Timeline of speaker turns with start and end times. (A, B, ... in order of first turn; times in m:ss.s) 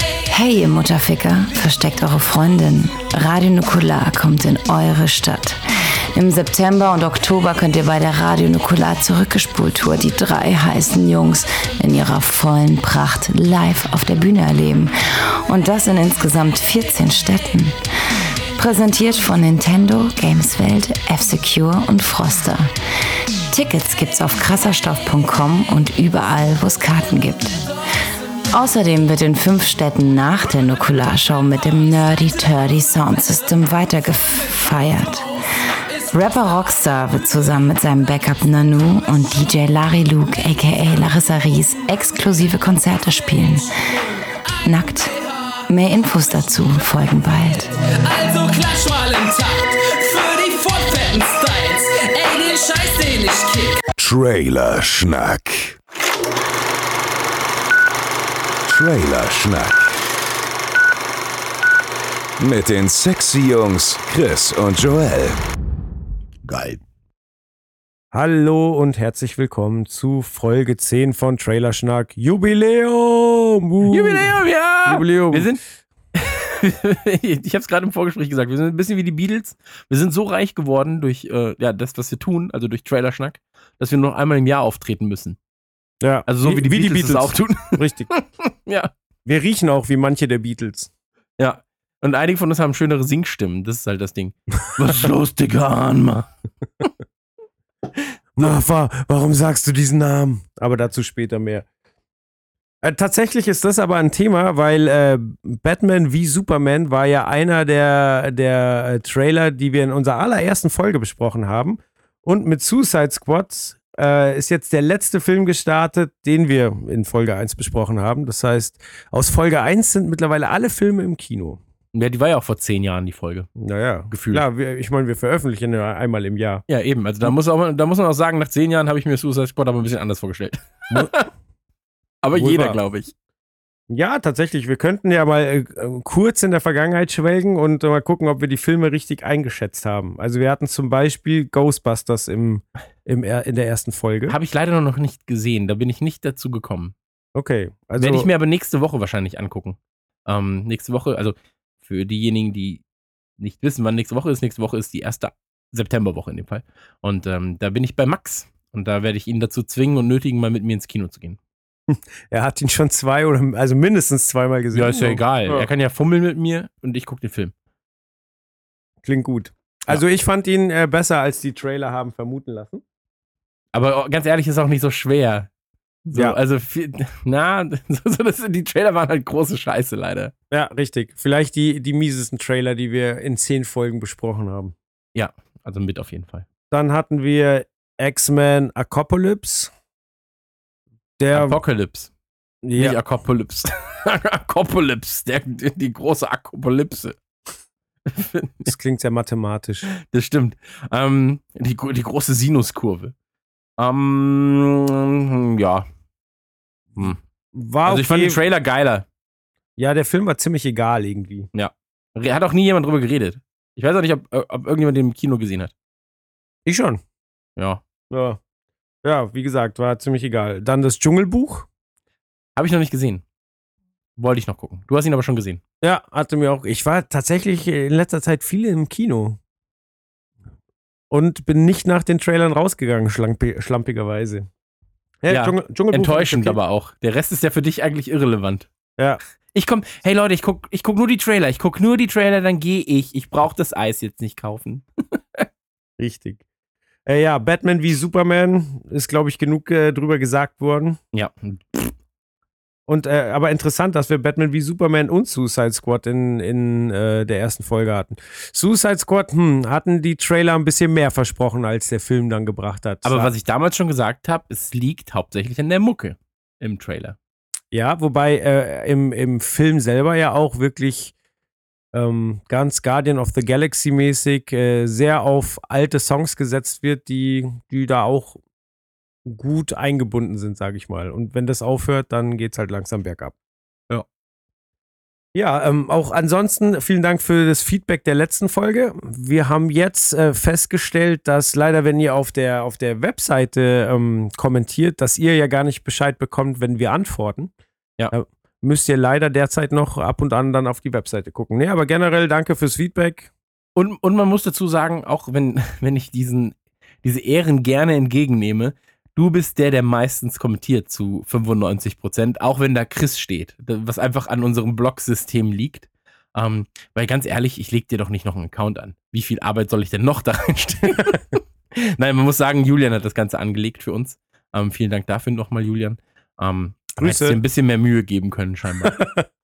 0:00.3-0:05.6 A
0:06.1-0:17.8 A
0:18.6-0:22.7 A
0:23.5-0:27.6 A
0:28.5-0:35.3 A
0:36.1-0:43.7 A
0:44.6-0:45.1 A
0:45.7-0:47.7 A
0:48.0-0:53.8 B
0:54.0-0:55.8 C
0:58.7-0:59.9 C
1:02.4-1:05.4 C
1:06.4-1:06.8 C
1:08.1-1:15.5 D
1:13.9-1:15.6 E
1:16.2-1:25.4 E
1:26.0-1:28.1 D
1:26.3-1:28.9 E
1:29.2-1:30.9 D
1:31.4-1:36.3 E
1:38.4-1:41.7 D
1:42.8-2:01.6 D
2:01.9-2:03.5 E
2:03.6-2:06.6 D
2:04.1-2:04.4 E
2:06.7-2:11.3 E
2:10.9-2:11.2 D
2:12.2-2:13.1 E
2:12.3-2:12.8 D
2:13.9-2:24.4 D
2:24.3-2:26.9 E
2:27.4-2:28.3 D
2:28.0-2:32.8 E
2:33.4-2:41.4 E
2:41.9-2:45.7 D
2:44.7-2:47.5 E
2:49.0-2:52.8 D
2:53.7-2:55.5 E
2:56.1-3:00.3 E
3:00.5-3:04.8 D
3:05.2-3:06.4 E
3:06.7-3:09.7 D
3:11.2-3:11.6 D
3:11.3-3:12.1 E
3:12.6-3:13.0 D
3:12.8-3:17.2 E
3:18.1-3:18.7 E
3:18.6-3:19.9 D
3:19.9-3:23.1 E
3:23.8-3:25.9 E
3:27.5-3:28.4 D
3:27.8-3:29.1 E
3:29.8-3:31.5 D
3:31.5-3:35.7 E
3:36.7-3:37.0 D
3:38.1-3:38.4 D
3:39.0-3:41.7 D
3:42.6-3:43.2 E
3:44.2-3:45.6 E
3:45.8-3:49.4 D
3:51.1-3:54.5 D
3:55.2-3:56.6 D
3:55.3-3:58.7 E
3:59.5-4:05.5 E
4:06.0-4:06.4 D
4:07.1-4:11.0 D
4:11.1-4:12.0 E
4:12.9-4:23.3 D
4:23.0-4:27.2 E
4:27.7-4:31.1 D
4:31.9-4:38.4 D
4:39.2-4:43.4 D
4:45.4-4:57.5 D
4:58.1-5:03.3 D
5:03.8-5:29.0 E
5:27.0-5:27.4 D
5:28.8-5:29.2 D